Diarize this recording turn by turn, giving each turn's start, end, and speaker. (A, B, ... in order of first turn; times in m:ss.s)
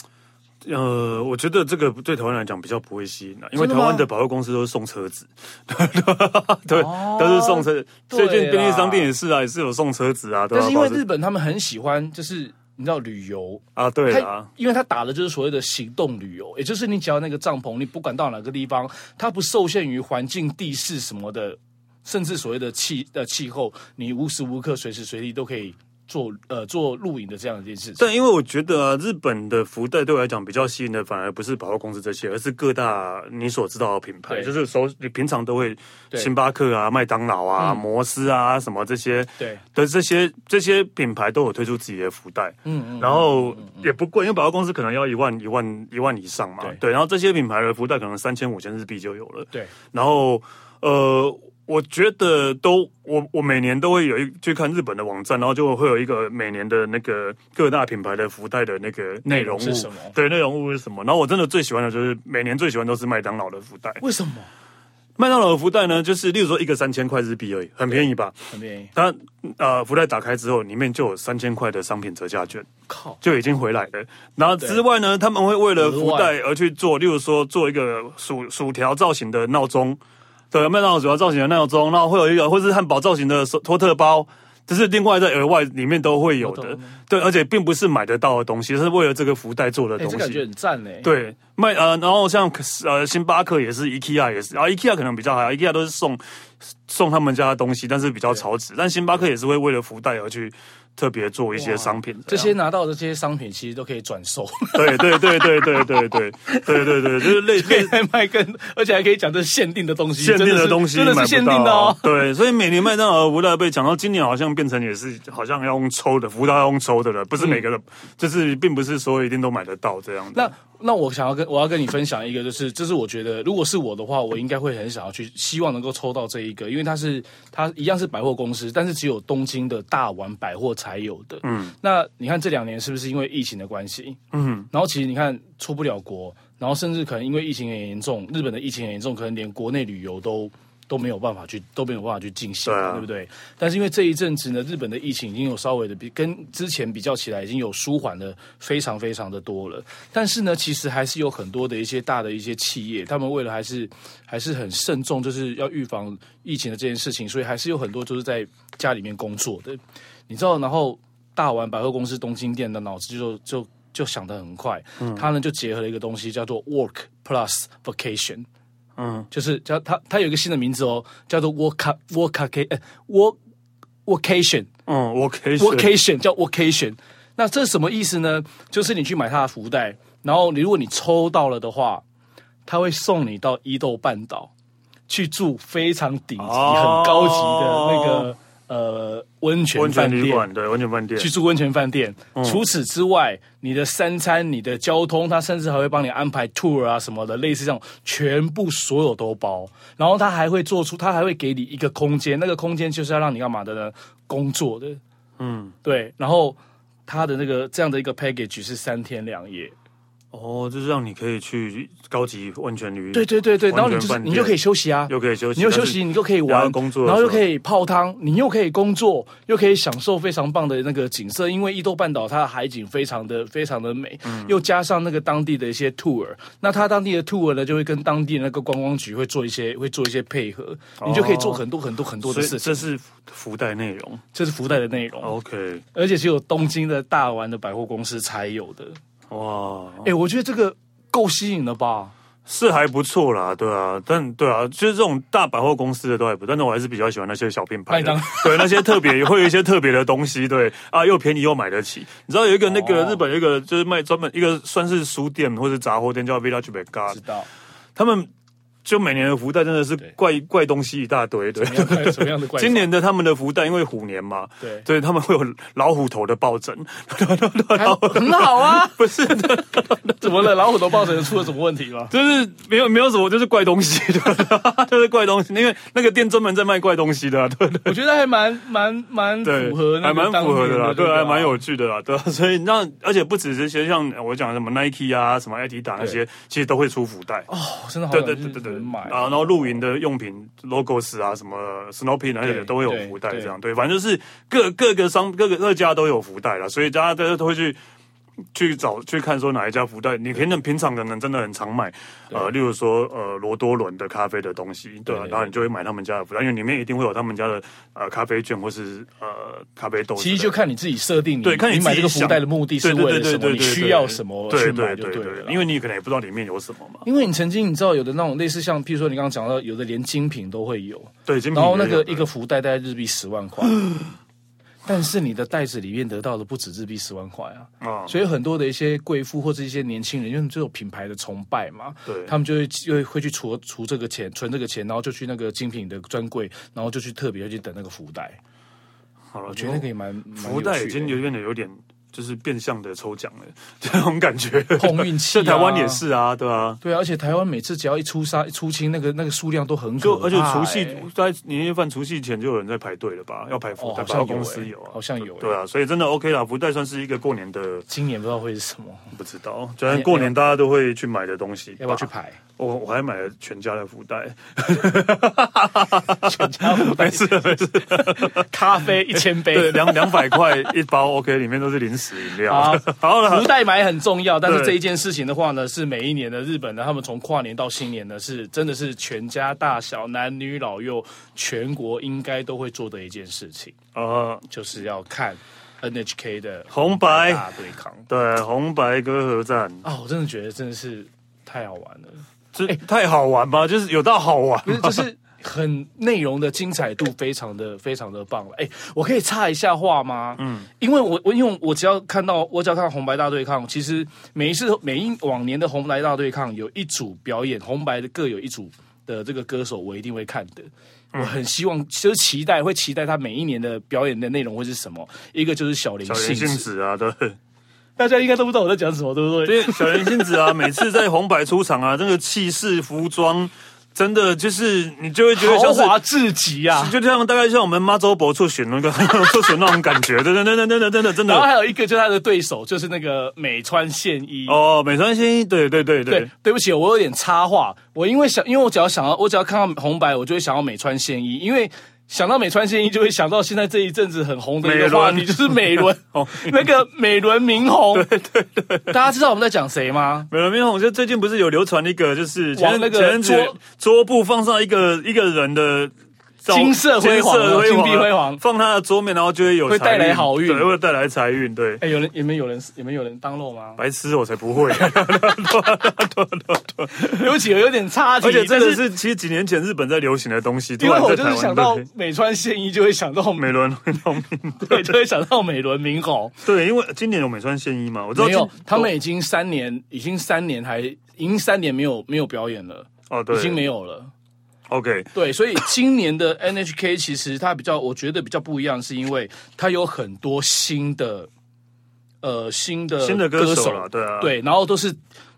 0:00.6-0:11.0 A
0:03.6-0:04.1 B
0:06.7-0:09.1 B
0:10.5-0:28.0 B
0:13.8-0:14.5 A
0:28.0-1:04.0 A
0:37.6-0:37.8 B
0:42.6-0:43.9 B
0:59.3-1:00.2 B
1:04.0-1:04.5 B
1:05.2-1:08.4 A
1:08.5-1:08.9 B
1:09.0-1:12.7 A
1:12.9-1:13.2 B
1:13.2-1:30.4 A
1:15.8-1:16.3 B
1:26.4-1:27.0 B
1:30.0-1:31.1 B
1:31.0-1:36.2 A
1:36.9-1:42.5 A
1:41.6-1:52.2 B
1:44.7-1:48.0 A
1:50.2-2:00.5 A
2:00.3-2:14.2 B
2:11.4-2:11.7 A
2:14.3-2:14.7 A
2:14.7-2:48.5 B
2:22.7-2:23.1 A
2:45.0-2:45.2 A
2:49.0-2:49.3 A
2:49.3-2:53.4 B
2:54.1-2:54.7 B
2:54.9-2:56.0 A
2:55.6-3:02.0 B
3:02.7-3:04.5 B
3:05.1-3:10.5 B
3:06.4-3:08.3 A
3:09.8-3:11.3 A
3:11.2-3:25.0 B
3:12.4-3:12.6 A
3:25.4-3:25.8 A
3:25.8-3:29.8 B
3:30.3-3:37.4 A
3:33.1-3:52.9 B
3:44.2-3:44.6 A
3:51.0-3:51.6 A
3:52.2-3:54.2 A
3:54.3-3:55.4 B
3:55.2-3:55.8 A
3:55.9-3:59.0 B
3:59.3-4:00.1 A
4:00.0-4:02.1 B
4:02.5-4:17.2 A
4:07.9-4:09.3 B
4:12.7-4:13.2 B
4:17.1-4:17.5 B
4:18.0-4:18.3 A
4:18.8-4:30.6 A
4:21.6-4:22.9 B
4:24.6-4:24.9 B
4:27.7-4:29.0 B
4:30.2-4:32.1 B
4:32.1-4:38.0 A
4:37.9-4:41.6 B
4:39.4-4:47.5 A
4:47.5-4:49.5 B
4:48.1-4:57.8 A
4:52.4-4:53.5 B
4:58.5-5:10.6 A
5:05.1-5:05.5 B
5:10.2-5:15.6 B
5:11.4-5:17.0 A
5:17.0-5:24.0 B
5:21.3-5:22.3 A
5:24.9-5:38.4 B
5:27.8-5:28.1 A
5:32.1-5:32.3 A
5:39.3-5:46.8 A
5:39.5-5:41.2 B
5:44.8-5:46.0 B
5:46.8-5:51.1 B
5:50.0-5:57.9 A
5:53.8-5:55.6 B
5:57.9-5:59.1 B
5:59.1-6:08.5 A
5:59.9-6:00.4 B
6:01.8-6:02.4 B
6:06.2-6:10.7 B
6:09.1-6:13.6 A
6:12.4-6:23.8 B
6:14.4-6:14.8 A
6:23.9-6:24.5 A
6:24.5-6:28.1 B
6:26.7-6:27.4 A
6:28.1-6:29.8 A
6:29.8-6:32.8 B
6:32.5-6:35.0 A
6:34.7-6:56.7 B
6:40.4-6:40.7 A
6:56.1-6:57.4 A
6:58.0-7:00.7 B
6:59.4-7:06.0 A
7:05.4-7:07.0 B
7:06.7-7:11.5 A
7:11.2-7:14.6 B
7:14.5-7:16.3 A
7:16.1-7:28.1 B
7:24.6-7:26.7 A
7:27.9-7:29.1 A
7:28.9-7:30.3 B
7:30.3-7:41.8 A
7:32.6-7:33.6 B
7:36.5-7:38.4 B
7:39.6-7:40.7 B
7:41.8-7:43.8 B
7:43.8-7:47.3 A
7:46.9-7:48.9 B
7:48.2-7:51.9 A
7:50.8-7:54.0 B
7:53.4-7:54.9 A
7:54.6-7:56.4 B
7:56.4-7:58.9 A
7:58.2-8:04.1 B
8:03.1-8:03.6 A
8:04.7-8:05.1 A
8:05.1-8:11.3 B
8:12.2-8:15.0 B
8:13.0-8:14.4 A